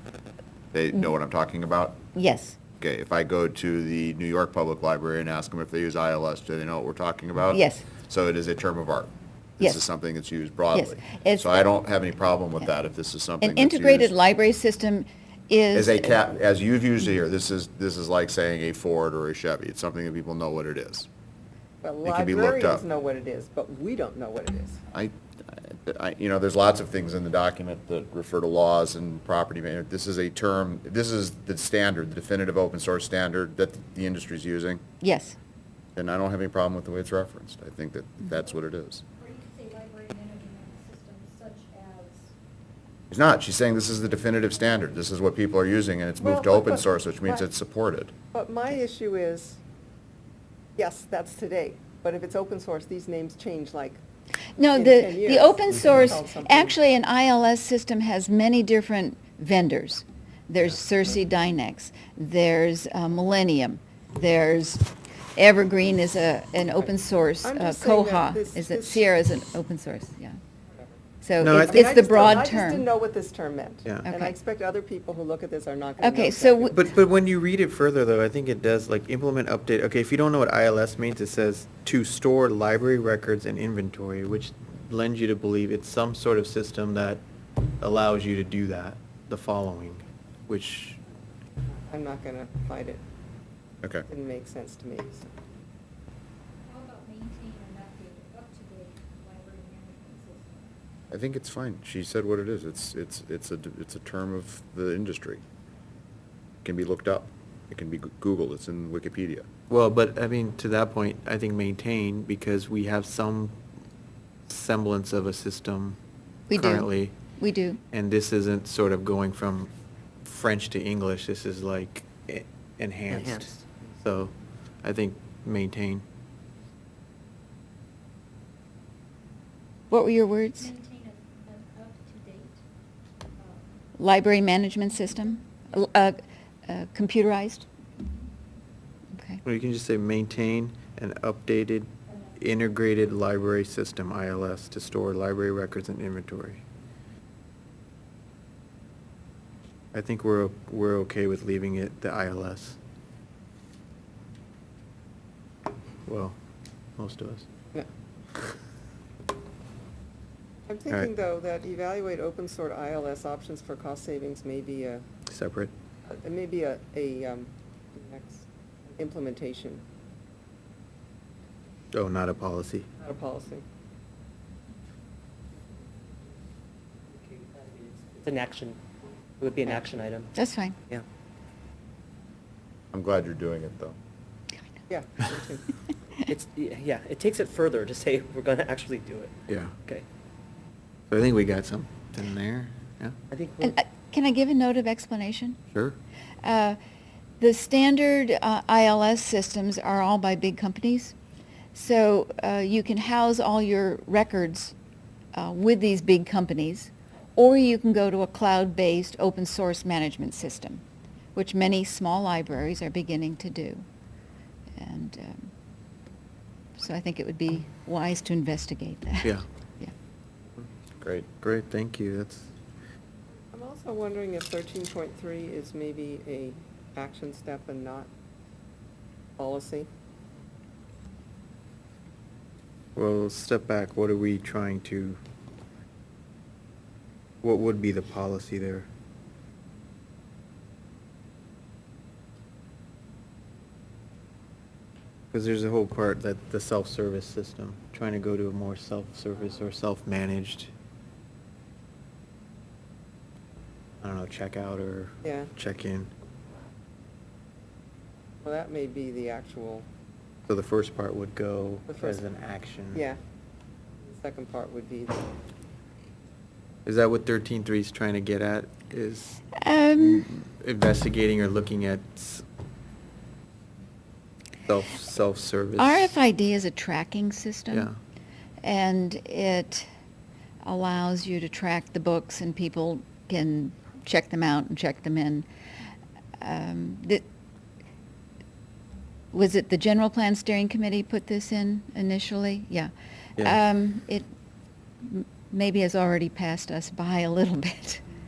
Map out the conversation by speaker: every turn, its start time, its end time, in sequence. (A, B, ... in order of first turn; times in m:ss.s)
0:00.7-0:02.0 A
0:02.1-0:02.6 B
0:02.8-0:14.1 A
0:07.5-0:07.9 B
0:09.6-0:09.9 B
0:10.7-0:11.8 B
0:13.4-0:16.2 B
0:15.7-0:21.1 A
0:21.8-0:24.8 C
0:22.0-0:22.8 A
0:24.9-0:34.8 A
0:35.0-0:35.4 B
0:36.0-0:39.0 A
0:39.2-0:42.3 D
0:43.1-0:48.1 A
0:46.2-0:47.4 C
0:48.3-0:49.6 C
0:50.8-0:54.0 C
0:54.6-1:10.4 B
0:54.7-0:56.8 C
1:07.4-1:09.1 C
1:11.2-1:12.9 B
1:11.4-1:11.9 E
1:11.5-1:16.8 C
1:14.0-1:14.3 B
1:16.0-1:16.8 B
1:16.7-1:27.2 E
1:27.8-1:31.0 E
1:31.7-1:33.0 C
1:34.1-1:35.3 C
1:36.6-1:40.7 D
1:41.1-1:45.4 A
1:46.6-1:49.5 A
1:49.7-1:53.6 E
1:54.5-1:56.0 E
1:56.5-1:57.1 E
1:56.5-1:57.8 B
1:57.9-1:59.7 E
2:00.2-2:06.0 E
2:03.1-2:03.5 F
2:09.9-2:10.7 B
2:10.6-2:12.6 D
2:13.4-2:13.6 D
2:14.0-2:17.7 B
2:19.2-2:19.4 B
2:19.4-2:26.6 E
2:29.9-2:32.8 E
2:36.0-2:36.4 E
2:37.0-2:37.4 E
2:40.7-2:45.0 C
2:45.3-2:45.7 E
2:46.1-2:49.8 C
2:51.9-2:52.9 E
2:53.0-2:53.6 C
2:57.1-2:58.8 F
2:59.4-3:00.3 F
3:00.3-3:00.8 B
3:02.9-3:04.0 A
3:04.9-3:05.6 C
3:06.3-3:10.0 F
3:09.5-3:09.8 E
3:11.1-3:13.2 E
3:13.3-3:13.7 F
3:13.6-3:15.6 B
3:16.4-3:16.8 B
3:17.4-3:21.1 B
3:21.7-3:24.7 B
3:25.3-3:30.8 B
3:31.3-3:33.8 B
3:34.8-3:35.5 B
3:36.8-3:39.9 B
3:41.0-3:41.3 A
3:41.4-3:42.5 E
3:43.5-3:48.1 C
3:49.4-3:49.9 C
3:53.0-3:55.2 E
3:57.4-3:58.9 E
4:05.3-4:10.7 E
4:14.0-4:16.1 E
4:15.2-4:15.5 C
4:18.4-4:19.8 C
4:20.5-4:23.0 E
4:21.9-4:22.2 C
4:24.0-4:25.2 C
4:26.8-4:29.4 E
4:29.6-4:30.3 B
4:30.0-4:32.4 E
4:34.7-4:36.1 E
4:35.8-4:37.9 B
4:37.7-4:38.0 E
4:38.6-4:39.9 B
4:40.6-4:45.5 B
4:46.4-4:47.2 B
4:49.3-4:54.3 B
4:55.0-4:58.0 B